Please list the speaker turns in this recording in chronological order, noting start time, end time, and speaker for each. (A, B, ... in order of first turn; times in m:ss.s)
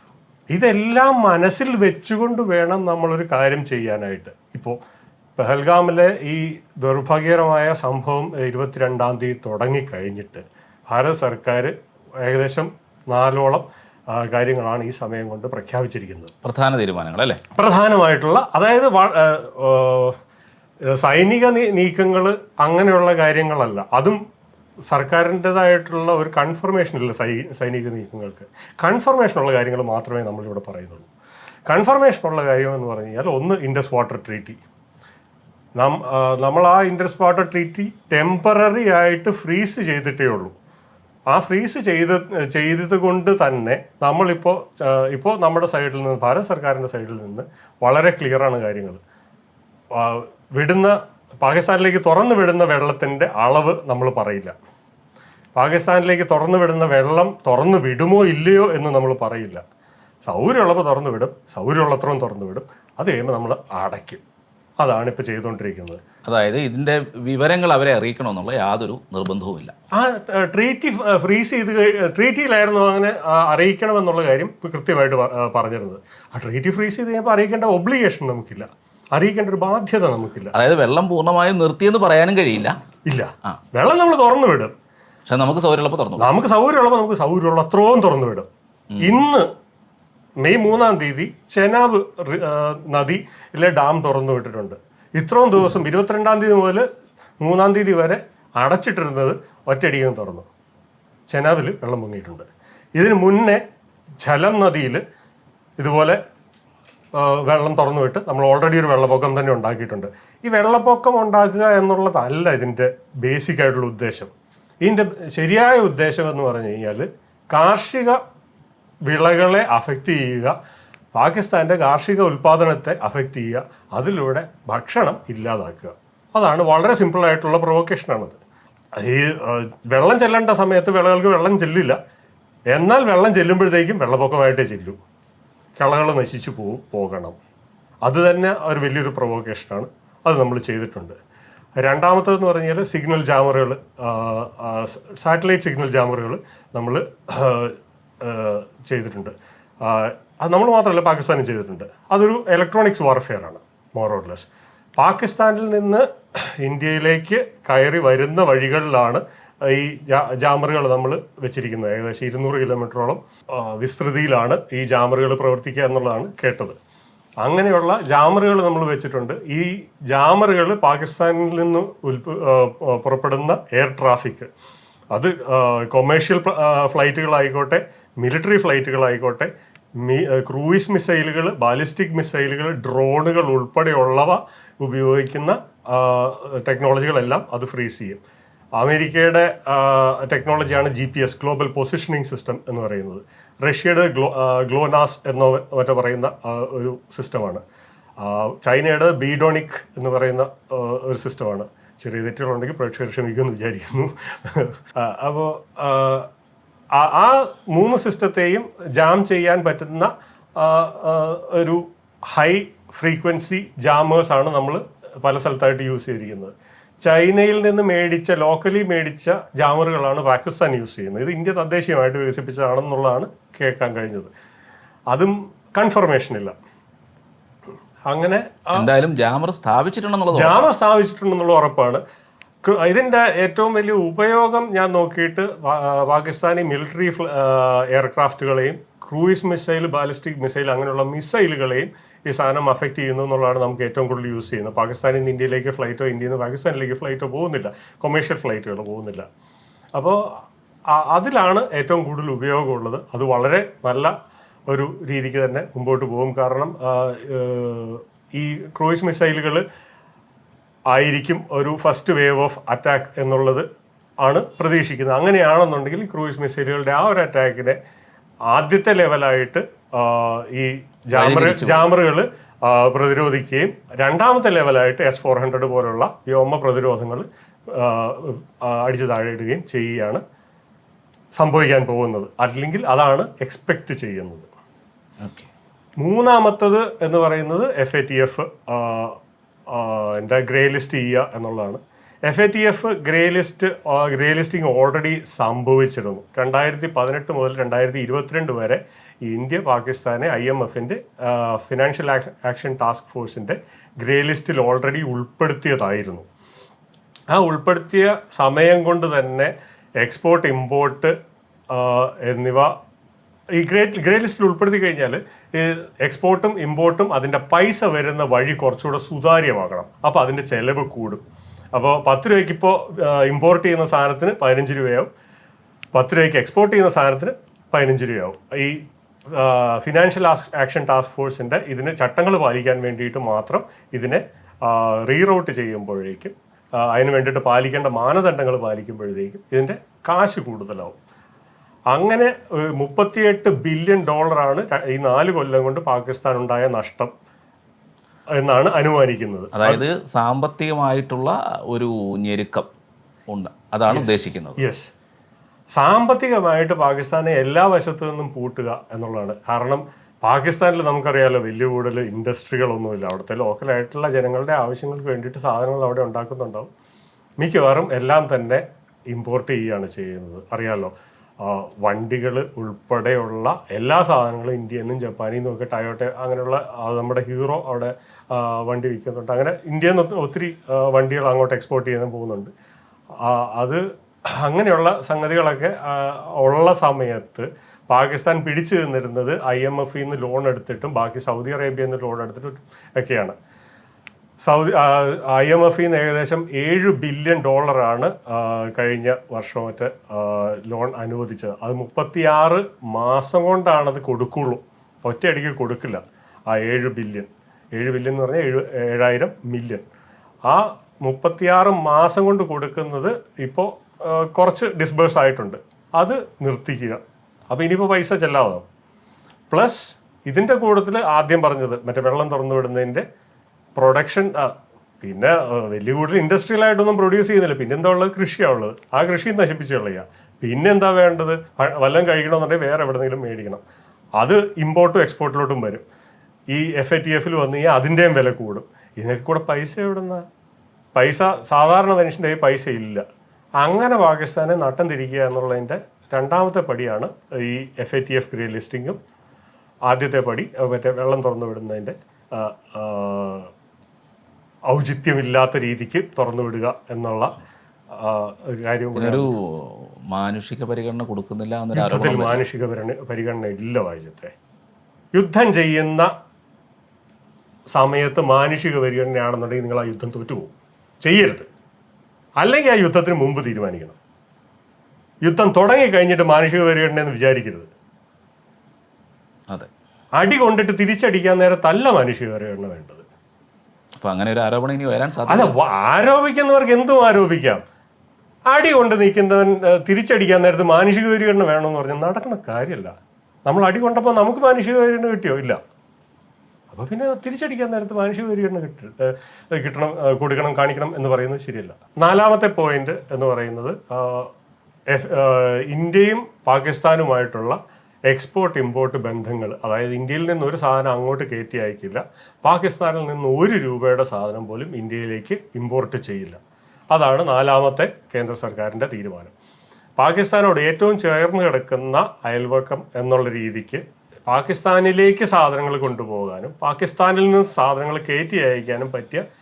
0:00.5-0:04.8 A
0:05.4-0:16.3 A
0:16.4-0:17.4 B
0:17.6-0:20.2 A
0:20.9-0:24.2 A
0:24.9-0:31.1 A
0:31.7-0:34.6 A
0:35.8-0:40.5 A
0:41.3-0:49.0 A
0:50.0-0:54.6 A
0:55.6-0:59.6 A
1:00.2-1:04.2 A
1:04.8-1:06.0 A
1:06.3-1:09.7 B
1:10.0-1:20.5 A
1:20.5-1:22.8 B
1:23.1-1:24.7 A
1:25.3-1:26.3 B
1:26.2-1:28.5 A
1:29.0-1:29.5 A
1:30.4-1:36.8 A
1:37.4-1:40.5 A
1:41.3-1:43.6 A
1:44.2-1:45.0 A
1:45.8-1:46.2 A
1:47.2-1:54.3 A
1:54.8-1:58.2 A
1:59.1-2:00.6 A
2:01.1-2:08.4 A
2:09.0-2:12.0 A
2:12.7-2:15.0 A
2:15.8-2:17.4 A
2:18.0-2:21.2 A
2:21.8-2:36.0 A
2:36.6-2:46.8 A
2:47.4-2:54.5 A
2:55.1-2:59.5 A
3:00.0-3:08.2 A
3:08.8-3:17.6 A
3:18.2-3:26.3 A
3:27.0-3:44.3 A
3:45.1-3:46.6 A
3:48.1-3:48.9 A
3:48.7-3:50.6 B
3:50.3-3:52.0 A
3:52.7-4:09.3 A
4:11.0-4:14.1 A
4:14.7-4:19.6 A
4:20.9-4:23.7 A
4:24.2-4:27.8 A
4:28.5-4:40.2 A
4:31.1-4:31.9 B
4:41.4-4:44.5 A
4:45.2-4:45.5 B
4:46.0-4:49.2 A
4:49.7-5:06.3 A
5:07.3-5:11.1 A
5:11.7-5:12.7 A
5:13.6-5:21.2 A
5:21.8-5:25.1 A
5:25.9-5:41.0 A
5:41.9-5:47.1 A
5:48.4-5:49.8 A
5:49.6-5:52.7 B
5:53.3-5:54.6 B
5:53.9-5:54.9 A
5:55.8-6:06.7 A
6:07.4-6:22.5 A
6:23.2-6:23.8 A
6:24.4-6:33.4 A
6:34.5-6:49.8 A
6:50.5-6:57.0 A
6:57.5-6:58.6 A
6:59.5-7:03.0 A
7:03.8-7:13.6 A
7:14.2-7:15.8 A
7:16.5-7:20.2 A
7:21.0-7:23.0 A
7:23.6-7:29.0 A
7:29.9-7:33.5 A
7:34.7-7:37.3 A
7:38.0-7:39.3 A
7:39.0-7:42.4 B
7:41.8-7:44.3 A
7:45.2-7:46.1 A
7:47.8-7:51.5 A
7:52.4-7:54.0 A
7:55.2-7:57.7 A
8:00.2-8:03.0 A
8:04.0-8:05.5 B
8:05.3-8:07.6 A
8:08.5-8:12.9 A
8:13.5-8:15.6 A
8:16.7-8:24.3 A
8:24.9-8:36.4 A
8:36.9-8:39.3 A
8:40.0-8:49.2 A